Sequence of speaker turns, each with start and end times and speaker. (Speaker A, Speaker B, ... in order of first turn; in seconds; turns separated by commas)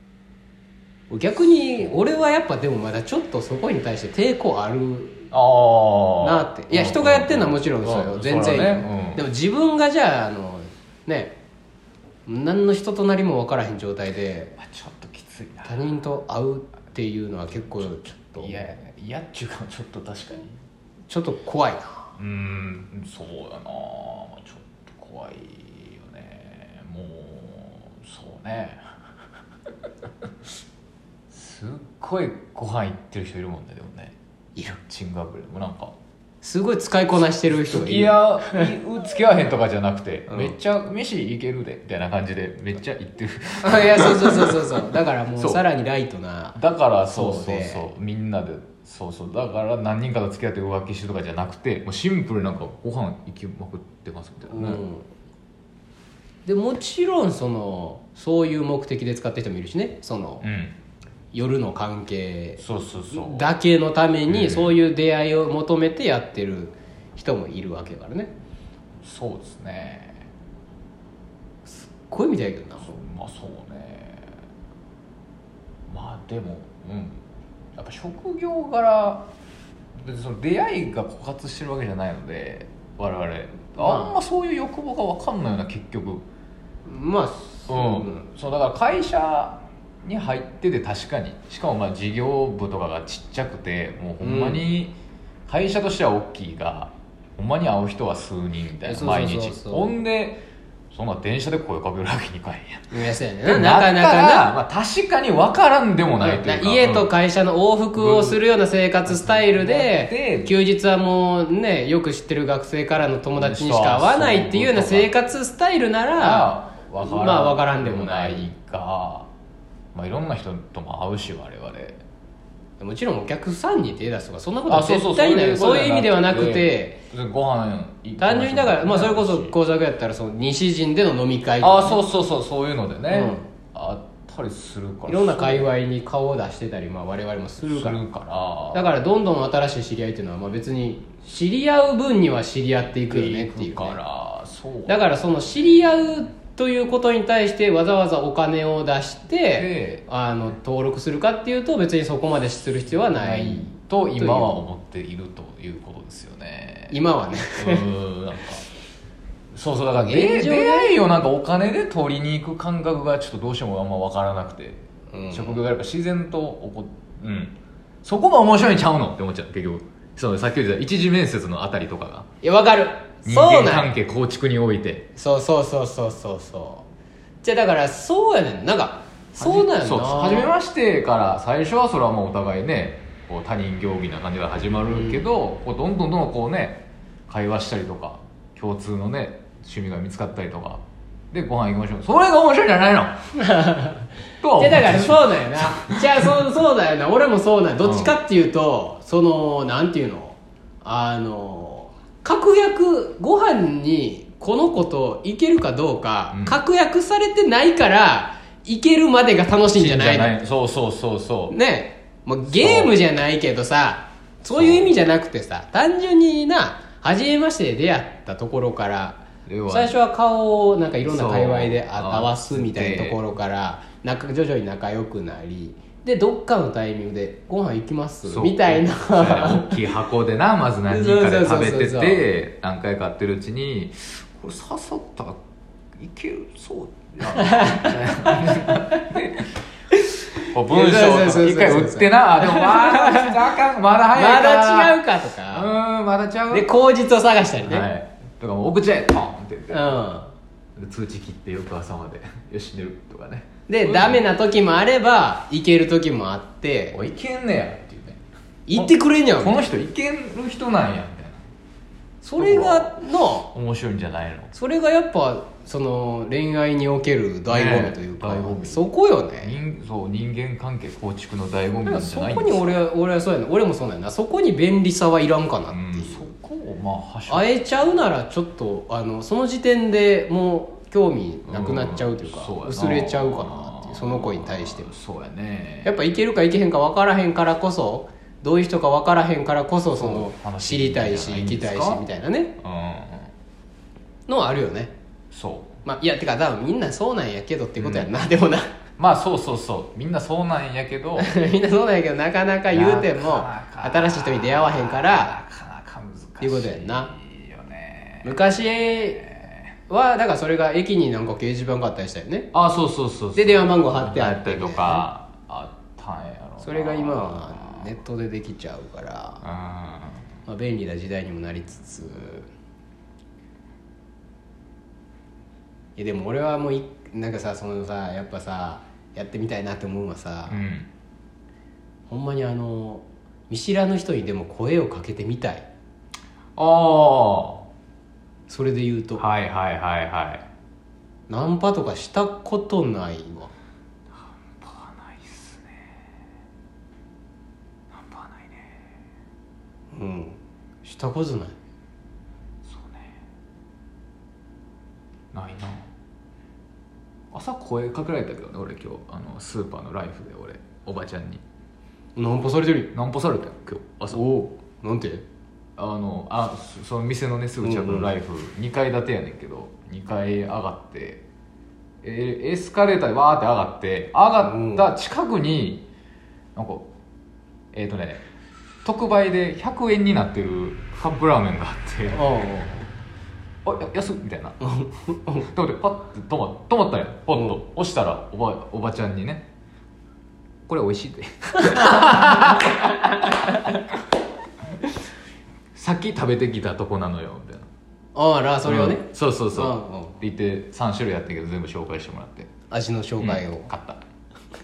Speaker A: 1.1-5.3, Speaker B: 5.3-9.2, Speaker A: 6.2-11.4, Speaker A: 12.3-14.6, Speaker B: 14.6-15.8, Speaker A: 15.6-18.6, Speaker B: 17.6-20.6, Speaker A: 21.1-22.0, Speaker B: 22.2-28.9, Speaker B: 31.3-36.0, Speaker A: 36.4-38.7, Speaker B: 37.5-44.8, Speaker A: 43.6-47.9, Speaker B: 45.4-45.6, Speaker B: 46.6-54.8, Speaker A: 54.5-55.1, Speaker A: 56.5-60.5, Speaker B: 60.4-60.8, Speaker A: 61.3-68.3, Speaker B: 62.6-63.5, Speaker B: 64.3-64.7, Speaker B: 69.0-70.3, Speaker A: 71.7-73.0, Speaker B: 72.8-74.3, Speaker B: 75.9-79.3, Speaker B: 80.0-86.3, Speaker A: 83.8-84.2, Speaker A: 86.8-88.3, Speaker B: 87.7-102.9, Speaker A: 94.2-94.6, Speaker A: 98.8-100.0, Speaker A: 102.9-104.5, Speaker B: 103.5-107.1, Speaker A: 106.2-118.5, Speaker B: 108.0-108.4, Speaker B: 109.1-110.5, Speaker B: 113.4-115.1, Speaker B: 116.2-119.3, Speaker B: 119.9-122.0, Speaker A: 122.8-127.0, Speaker B: 124.7-129.5, Speaker A: 128.2-132.0, Speaker B: 131.6-135.7, Speaker A: 133.1-133.5, Speaker A: 135.1-138.0, Speaker B: 137.6-138.9, Speaker A: 138.7-144.0, Speaker B: 143.1-145.2, Speaker A: 144.9-154.6, Speaker B: 149.6-150.1, Speaker B: 153.1-157.0, Speaker A: 156.9-157.9, Speaker B: 157.6-158.7, Speaker B: 159.5-172.3, Speaker A: 160.0-161.0, Speaker A: 165.1-165.6, Speaker A: 172.4-173.9, Speaker B: 173.2-175.1, Speaker A: 175.2-176.9, Speaker A: 177.4-180.5, Speaker B: 179.4-193.2, Speaker A: 184.9-185.2, Speaker A: 193.4-210.4, Speaker B: 194.4-196.4, Speaker B: 197.8-198.2, Speaker B: 206.3-206.6, Speaker B: 209.7-211.6, Speaker A: 211.5-229.8, Speaker B: 212.5-212.9, Speaker B: 214.5-214.9, Speaker B: 219.5-219.9, Speaker B: 221.0-223.2, Speaker B: 228.2-235.4, Speaker A: 230.9-232.2, Speaker B: 236.0-239.6, Speaker A: 237.3-239.1, Speaker A: 239.9-243.4, Speaker B: 240.5-245.0, Speaker A: 244.1-245.7, Speaker B: 245.5-246.7, Speaker A: 246.5-247.9, Speaker B: 247.6-250.0, Speaker A: 249.7-250.3, Speaker B: 250.8-254.2, Speaker A: 253.7-257.0, Speaker B: 256.9-261.4, Speaker A: 258.7-259.6, Speaker A: 262.2-263.5, Speaker B: 262.4-263.0, Speaker B: 263.5-264.5, Speaker A: 264.5-269.6, Speaker B: 267.5-268.8, Speaker B: 269.4-272.8, Speaker A: 271.9-276.3, Speaker B: 275.7-277.5, Speaker A: 277.3-284.9, Speaker B: 281.5-285.9, Speaker A: 285.8-292.5, Speaker B: 290.0-292.0, Speaker B: 292.6-293.3, Speaker A: 294.3-294.9, Speaker B: 295.3-295.8, Speaker A: 295.9-298.7, Speaker B: 297.8-298.1, Speaker B: 299.0-301.3, Speaker A: 301.2-305.4, Speaker B: 302.7-309.8, Speaker A: 306.4-307.1, Speaker A: 308.2-309.2, Speaker A: 309.9-312.5, Speaker B: 312.5-317.9, Speaker A: 313.4-315.1, Speaker A: 316.6-319.4, Speaker B: 319.4-320.3, Speaker A: 320.5-322.5, Speaker A: 326.0-330.6, Speaker B: 330.5-330.9, Speaker A: 332.1-335.7, Speaker B: 336.6-337.6, Speaker A: 338.5-339.2, Speaker B: 339.2-340.4, Speaker A: 341.3-343.5, Speaker B: 344.1-346.0, Speaker B: 347.9-348.9, Speaker A: 349.9-351.6, Speaker B: 352.6-353.2, Speaker B: 355.3-355.9, Speaker B: 357.3-361.4, Speaker A: 362.1-362.9, Speaker B: 362.9-364.2, Speaker A: 364.1-365.2, Speaker B: 365.8-371.2, Speaker A: 367.6-368.1, Speaker B: 372.0-375.9, Speaker A: 374.4-374.9, Speaker B: 376.6-376.9, Speaker B: 377.7-378.3, Speaker B: 378.8-382.2, Speaker A: 382.1-382.9, Speaker B: 383.6-384.6, Speaker A: 384.6-385.5, Speaker B: 385.4-389.5, Speaker A: 387.3-387.6, Speaker B: 390.7-394.0, Speaker A: 391.6-393.8, Speaker B: 395.8-397.7, Speaker A: 398.1-400.2, Speaker B: 398.6-402.5, Speaker A: 402.7-403.7, Speaker B: 403.2-404.0